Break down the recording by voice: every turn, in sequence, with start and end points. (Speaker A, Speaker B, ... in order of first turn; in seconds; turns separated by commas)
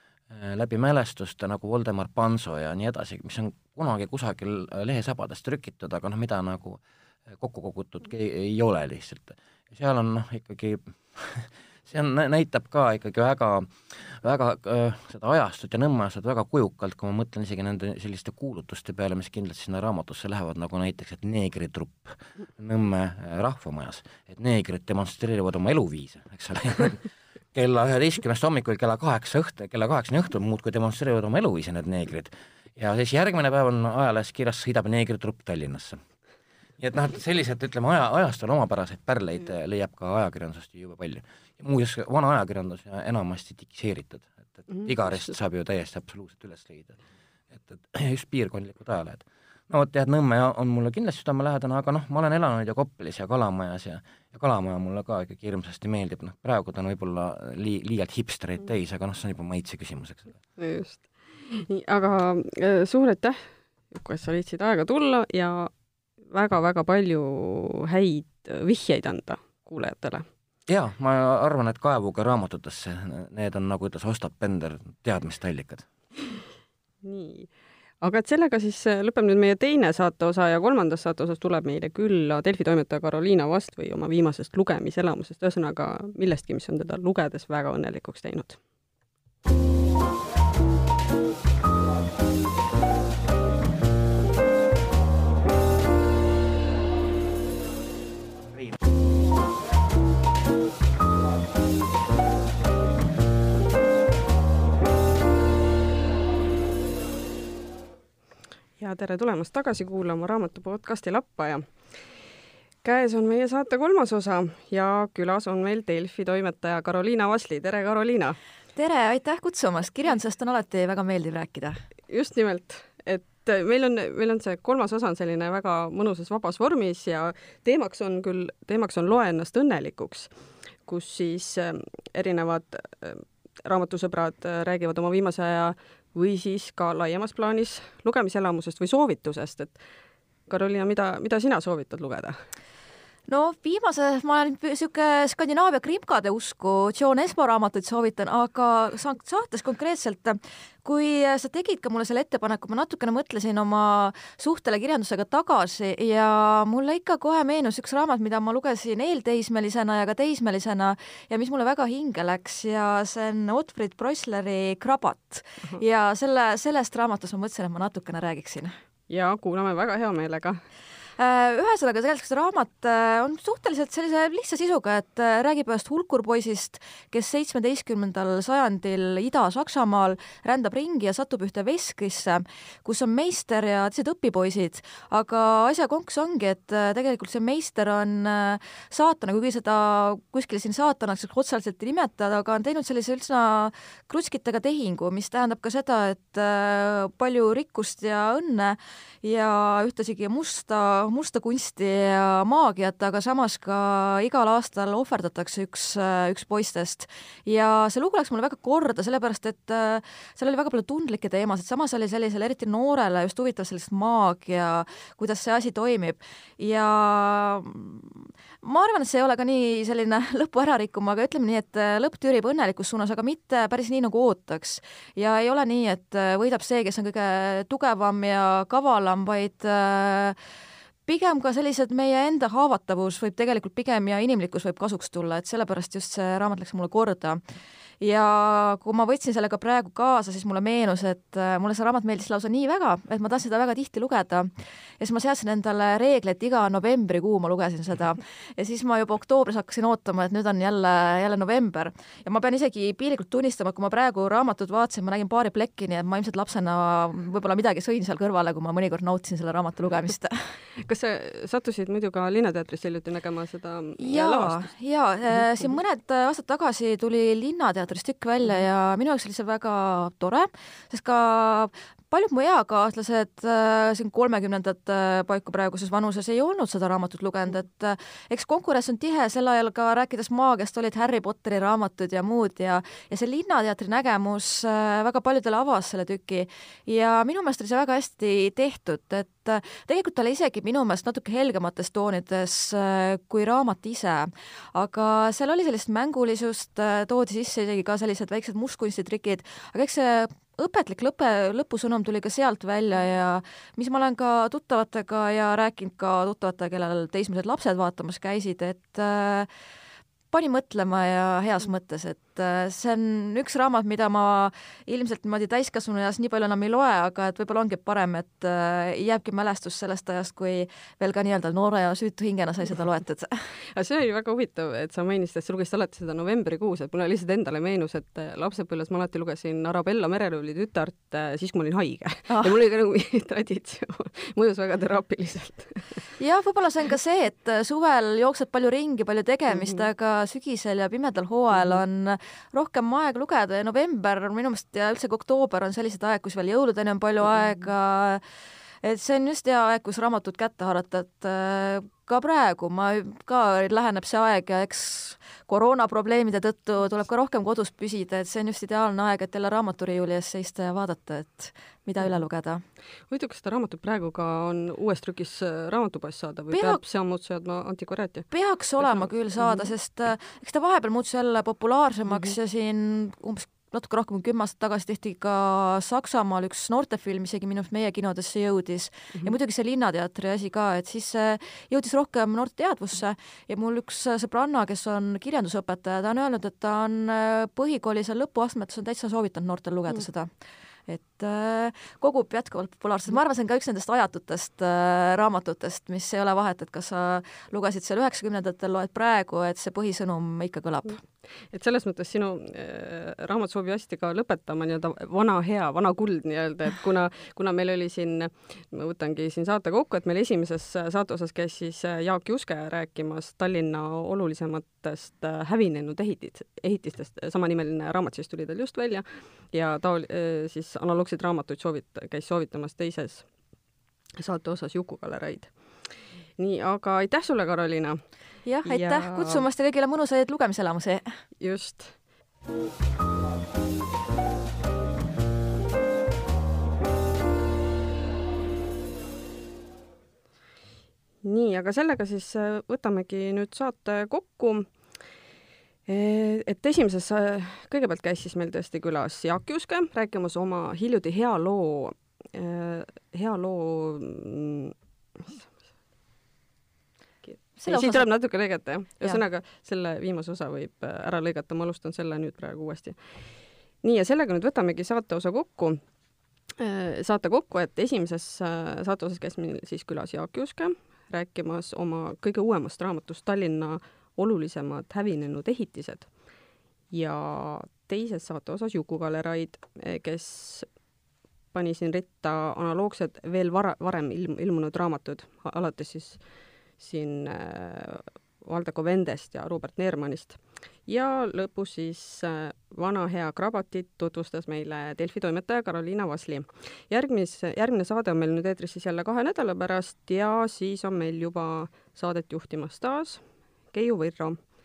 Speaker A: 0.3-6.8, Speaker A: 7.3-36.0, Speaker A: 36.8-47.0, Speaker A: 47.5-60.4, Speaker B: 60.6-65.7, Speaker B: 66.3-70.3, Speaker A: 70.7-75.8, Speaker B: 77.0-77.5, Speaker B: 78.0-88.6, Speaker B: 108.8-111.7, Speaker B: 112.8-118.4, Speaker C: 118.8-121.7, Speaker B: 122.1-130.3, Speaker B: 130.8-139.8, Speaker B: 140.5-142.4, Speaker C: 143.3-168.7, Speaker B: 169.1-170.6, Speaker C: 171.2-230.3, Speaker C: 231.1-237.4, Speaker C: 238.0-260.4, Speaker B: 260.8-264.7, Speaker C: 264.0-309.5, Speaker C: 310.3-323.3, Speaker B: 323.7-336.0, Speaker C: 332.3-332.6, Speaker C: 336.2-348.2, Speaker C: 348.8-362.6, Speaker B: 363.1-368.3, Speaker C: 366.5-366.8, Speaker C: 368.3-390.3, Speaker B: 368.8-369.7, Speaker C: 390.9-401.0, Speaker B: 401.5-423.3, Speaker B: 424.2-428.0, Speaker C: 428.4-431.0, Speaker B: 428.6-429.4, Speaker B: 431.4-431.9, Speaker B: 441.2-444.7, Speaker B: 445.9-455.5, Speaker B: 457.3-463.0, Speaker C: 457.6-458.1, Speaker B: 463.8-465.8, Speaker B: 466.6-476.1, Speaker B: 476.9-480.7, Speaker B: 481.5-486.2, Speaker B: 486.8-504.4